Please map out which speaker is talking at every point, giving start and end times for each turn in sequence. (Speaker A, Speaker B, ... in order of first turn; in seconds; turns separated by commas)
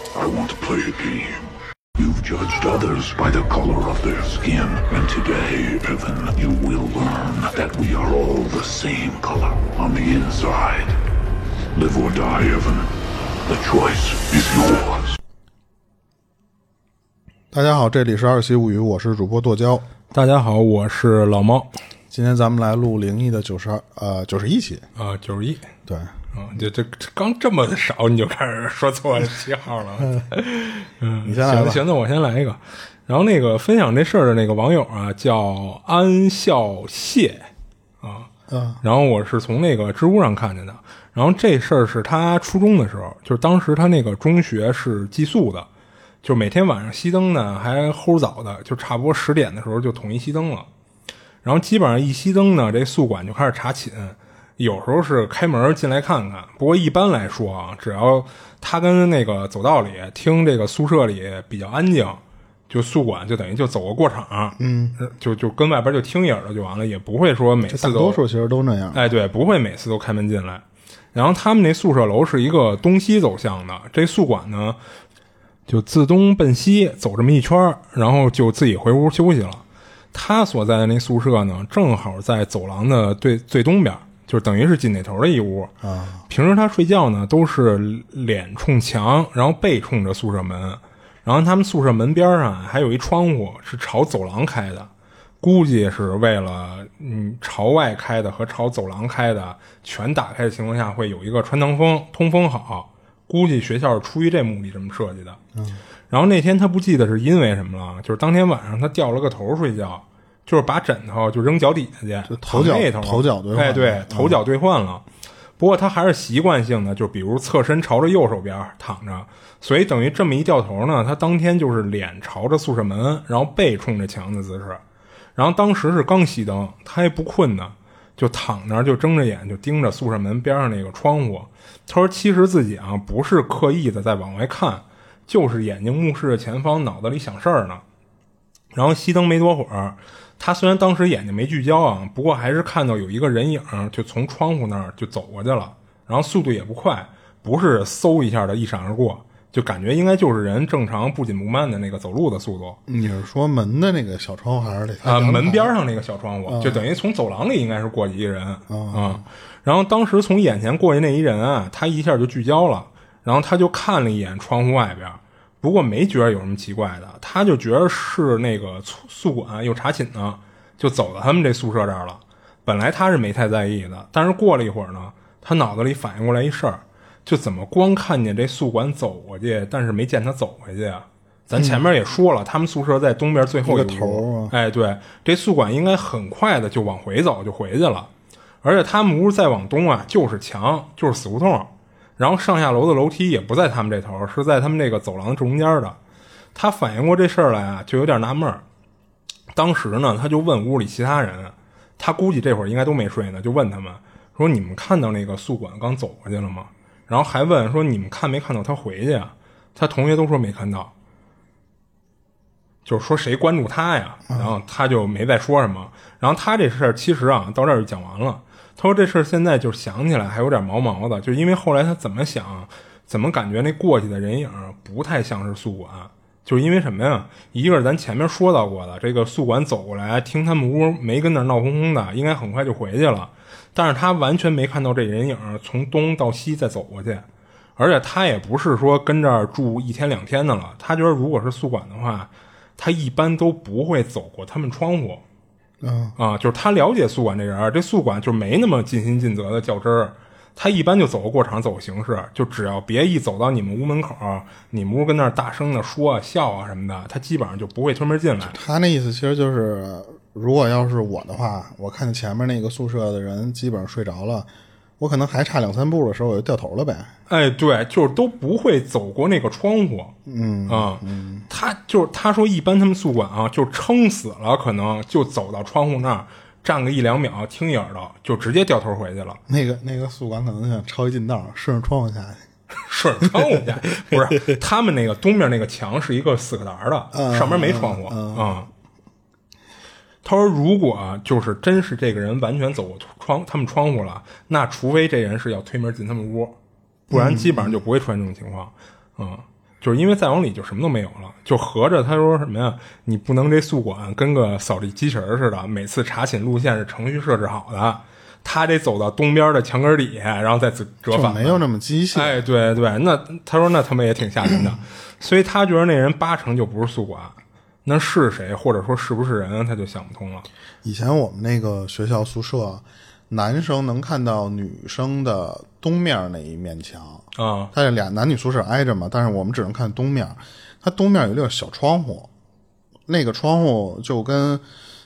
Speaker A: 0.1-1.4, Speaker A: 2.0-11.0, Speaker A: 11.7-12.9, Speaker A: 13.4-15.1, Speaker B: 17.5-19.9, Speaker C: 20.1-21.7, Speaker B: 22.1-24.9, Speaker C: 25.0-25.7, Speaker B: 25.9-26.1, Speaker C: 26.3-37.5, Speaker B: 31.2-31.9, Speaker C: 38.0-38.3, Speaker B: 38.5-38.8, Speaker C: 38.8-45.7, Speaker C: 46.2-50.7, Speaker C: 51.4-68.2, Speaker B: 64.6-65.0, Speaker B: 67.7-69.0, Speaker C: 68.9-74.8, Speaker C: 75.7-85.7, Speaker B: 85.8-86.2, Speaker C: 86.3-94.9, Speaker C: 95.4-105.4, Speaker B: 105.5-105.8, Speaker C: 106.1-115.0, Speaker B: 112.3-114.4, Speaker C: 115.6-124.8, Speaker C: 125.4-137.8, Speaker C: 138.7-152.8, Speaker B: 152.9-155.7, Speaker C: 155.0-188.1, Speaker B: 156.5-156.9, Speaker B: 158.7-159.2, Speaker B: 181.6-181.8, Speaker B: 183.7-184.5, Speaker C: 188.6-196.0, Speaker C: 196.6-198.6, Speaker C: 199.5-210.9, Speaker C: 212.8-237.3, Speaker C: 237.8-245.2, Speaker B: 245.8-246.2, Speaker C: 246.2-258.6, Speaker B: 258.4-267.1, Speaker C: 267.3-270.1, Speaker B: 270.3-271.5, Speaker C: 270.7-279.4, Speaker B: 279.5-282.4, Speaker C: 282.8-288.7, Speaker B: 283.2-284.6, Speaker B: 287.1-288.6, Speaker C: 290.2-296.6, Speaker C: 297.1-311.6, Speaker B: 297.1-297.8, Speaker B: 311.1-312.4, Speaker C: 312.1-320.5, Speaker B: 320.8-332.3, Speaker C: 327.4-327.7, Speaker B: 333.1-334.6